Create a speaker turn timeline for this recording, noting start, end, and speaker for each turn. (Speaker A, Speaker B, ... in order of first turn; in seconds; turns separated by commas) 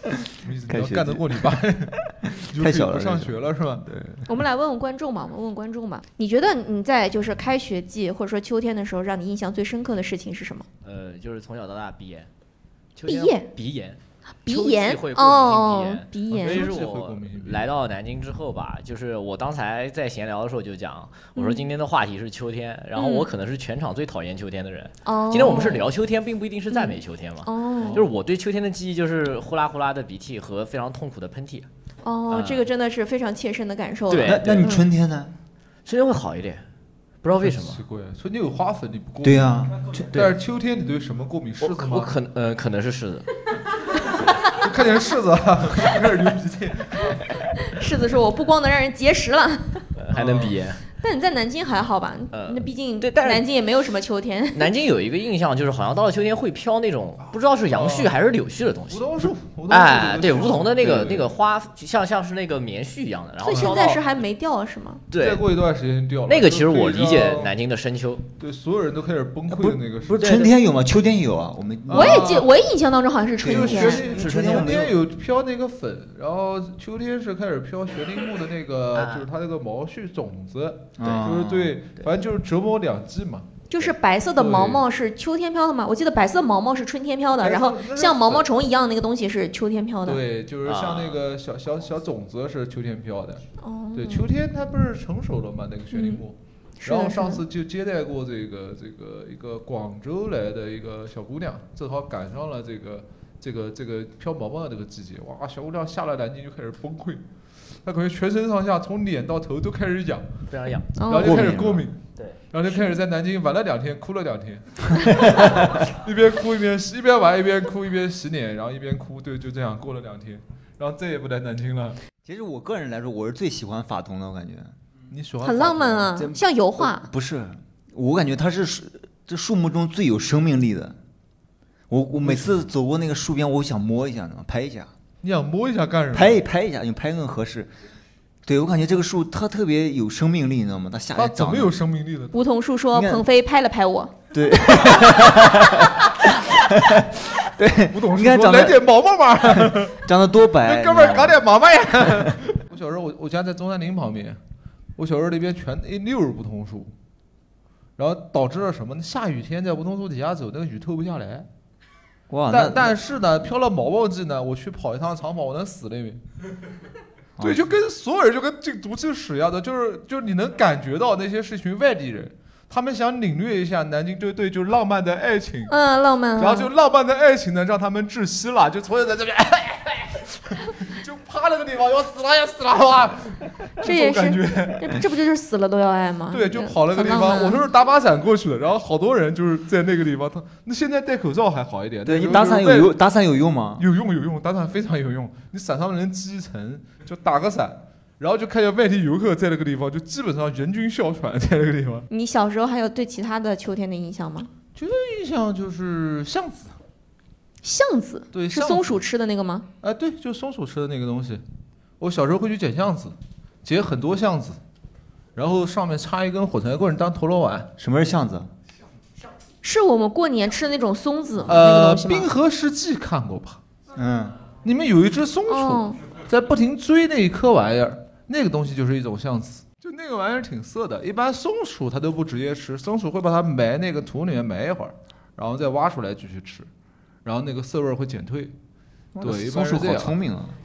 Speaker A: 0.4-1.9, Speaker B: 0.7-1.6, Speaker B: 2.2-4.2, Speaker A: 2.5-3.9, Speaker C: 4.3-10.7, Speaker D: 10.8-12.3, Speaker D: 13.0-31.7, Speaker C: 13.1-13.5, Speaker C: 14.5-16.7, Speaker A: 16.3-17.7, Speaker C: 21.4-21.6, Speaker C: 22.9-23.3, Speaker C: 25.0-25.9, Speaker C: 26.7-28.0, Speaker A: 27.8-28.1, Speaker C: 32.0-34.8, Speaker D: 32.3-32.7, Speaker D: 34.1-34.7, Speaker B: 34.2-35.3, Speaker D: 35.9-36.6, Speaker D: 37.2-37.8, Speaker A: 37.4-42.1, Speaker B: 39.2-40.1, Speaker D: 41.6-43.3, Speaker A: 44.5-47.4, Speaker C: 47.7-49.8, Speaker D: 50.0-50.8, Speaker A: 50.1-50.6, Speaker C: 51.0-54.7, Speaker D: 52.3-53.5, Speaker D: 54.5-64.0, Speaker A: 57.7-58.1, Speaker A: 58.9-61.3, Speaker C: 63.4-65.0, Speaker D: 65.1-65.5, Speaker A: 65.1-67.5, Speaker D: 66.3-68.3, Speaker A: 68.4-70.3, Speaker D: 70.1-70.5, Speaker B: 70.1-72.4, Speaker A: 71.9-72.5, Speaker C: 71.9-74.0, Speaker B: 73.4-75.0, Speaker A: 73.4-83.5, Speaker D: 74.1-74.8, Speaker D: 78.9-79.2, Speaker B: 81.0-81.8, Speaker C: 83.7-90.2, Speaker A: 84.4-84.8, Speaker A: 87.4-88.5, Speaker A: 90.0-93.4, Speaker D: 90.7-91.2, Speaker C: 93.6-94.3, Speaker A: 93.9-107.2, Speaker C: 95.9-96.2, Speaker C: 96.8-97.4, Speaker A: 107.8-110.3, Speaker D: 110.5-110.9, Speaker C: 111.0-111.5, Speaker A: 111.1-112.0, Speaker B: 111.1-111.9, Speaker A: 112.5-122.0, Speaker B: 122.2-124.7, Speaker A: 125.1-126.1, Speaker C: 125.4-127.1, Speaker B: 126.2-131.0, Speaker B: 131.9-134.9, Speaker A: 132.2-132.7, Speaker A: 135.2-136.4, Speaker B: 136.1-137.7, Speaker B: 138.4-141.8, Speaker A: 141.2-142.3, Speaker C: 142.3-144.1, Speaker B: 142.9-143.2, Speaker B: 144.3-148.9, Speaker A: 147.9-150.0, Speaker B: 149.4-151.4, Speaker A: 150.6-154.4, Speaker B: 152.0-152.3, Speaker A: 155.0-156.9, Speaker A: 158.0-161.5, Speaker B: 162.3-163.0, Speaker A: 162.5-166.2, Speaker B: 167.4-167.7, Speaker A: 167.4-175.7, Speaker C: 175.7-176.7, Speaker A: 176.4-185.0, Speaker C: 183.8-187.6, Speaker A: 186.3-193.0, Speaker B: 192.1-193.8, Speaker A: 193.8-202.1, Speaker C: 202.1-204.5, Speaker A: 204.8-206.7, Speaker C: 207.6-209.7, Speaker A: 208.3-209.0, Speaker A: 209.8-211.4, Speaker A: 212.0-214.6, Speaker A: 215.3-217.7, Speaker B: 217.8-218.5, Speaker C: 219.6-222.3, Speaker A: 221.5-223.6, Speaker B: 223.9-224.3, Speaker A: 224.6-236.7, Speaker C: 225.5-226.0, Speaker A: 237.2-238.5, Speaker B: 239.1-240.5, Speaker A: 239.2-240.2